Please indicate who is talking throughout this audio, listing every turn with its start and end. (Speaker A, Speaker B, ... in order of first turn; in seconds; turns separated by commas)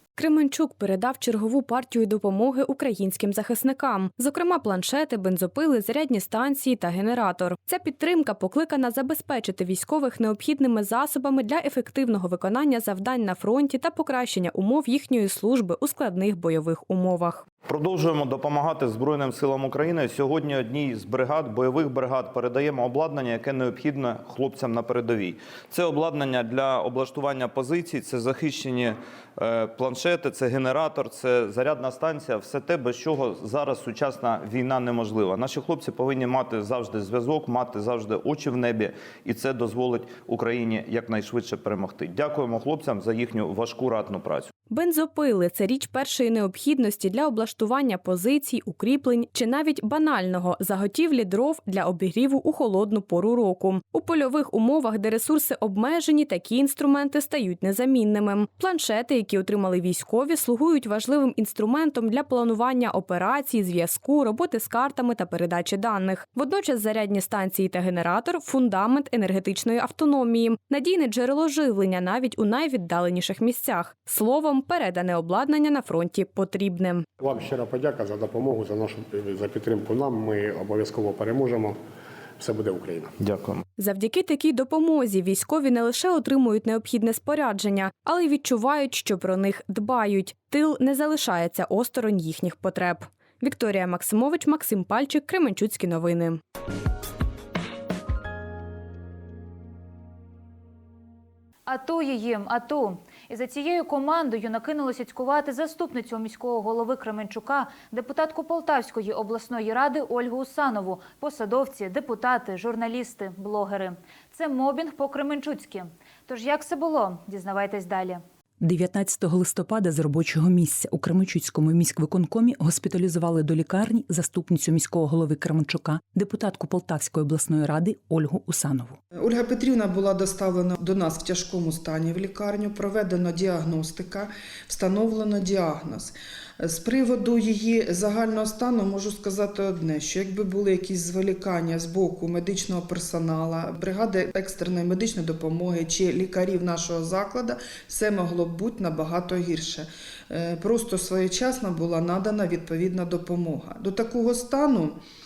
Speaker A: 0.1-17.4, Speaker B: 17.6-44.5, Speaker A: 44.7-77.1, Speaker C: 77.2-81.8, Speaker C: 82.4-83.1, Speaker B: 83.2-83.6, Speaker A: 83.8-96.4, Speaker D: 101.7-118.2, Speaker E: 118.6-129.0, Speaker F: 129.2-155.0